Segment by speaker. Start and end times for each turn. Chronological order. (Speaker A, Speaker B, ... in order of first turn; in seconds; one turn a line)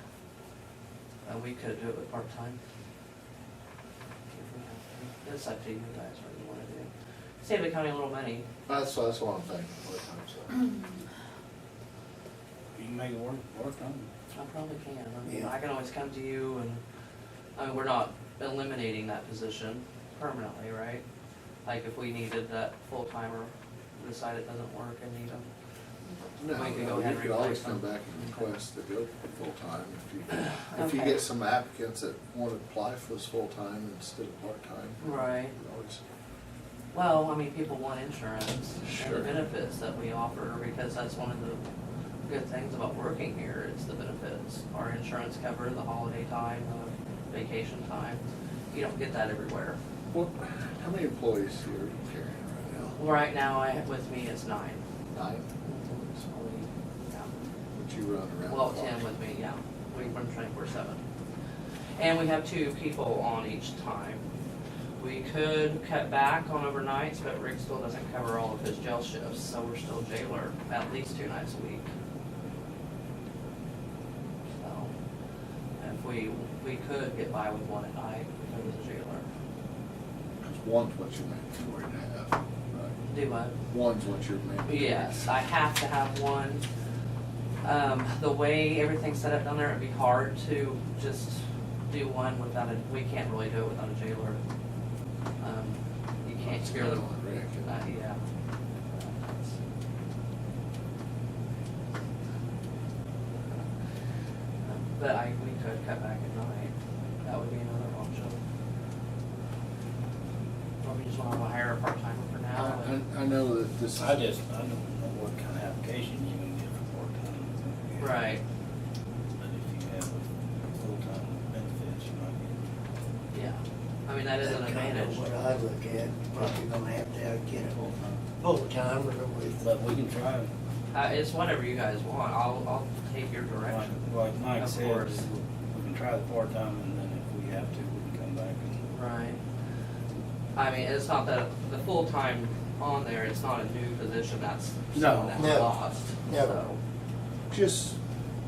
Speaker A: 1.2-2.6
Speaker A: 4.3-8.4
Speaker B: 8.7-10.8
Speaker C: 12.8-14.1
Speaker A: 14.3-16.8
Speaker D: 15.2-15.5
Speaker A: 17.6-21.0
Speaker A: 21.6-25.5
Speaker B: 26.4-36.0
Speaker A: 26.5-28.4
Speaker A: 30.3-31.2
Speaker A: 35.0-35.5
Speaker A: 36.9-41.6
Speaker B: 38.8-39.3
Speaker A: 42.3-49.8
Speaker B: 50.1-53.0
Speaker A: 53.0-54.8
Speaker B: 55.1-55.5
Speaker A: 55.6-57.3
Speaker B: 57.8-59.0
Speaker A: 58.5-61.0
Speaker A: 62.0-64.2
Speaker A: 65.0-71.9
Speaker A: 74.6-74.9
Speaker A: 75.8-79.3
Speaker B: 80.4-83.0
Speaker A: 83.1-83.5
Speaker B: 83.7-85.3
Speaker A: 84.7-86.7
Speaker A: 87.6-94.4
Speaker A: 95.4-97.0
Speaker B: 96.4-97.8
Speaker A: 97.7-98.2
Speaker A: 98.9-99.6
Speaker A: 104.6-108.4
Speaker A: 110.8-112.9
Speaker B: 112.5-114.2
Speaker C: 114.0-118.3
Speaker A: 118.0-118.4
Speaker C: 119.4-122.8
Speaker A: 123.3-125.2
Speaker D: 124.4-129.7
Speaker C: 127.8-128.2
Speaker C: 129.6-130.5
Speaker A: 130.9-134.0
Speaker C: 133.6-138.8
Speaker A: 134.6-135.3
Speaker A: 138.9-139.4
Speaker A: 140.6-146.8
Speaker C: 144.9-145.7
Speaker D: 145.4-145.7
Speaker D: 146.3-146.6
Speaker B: 147.5-148.0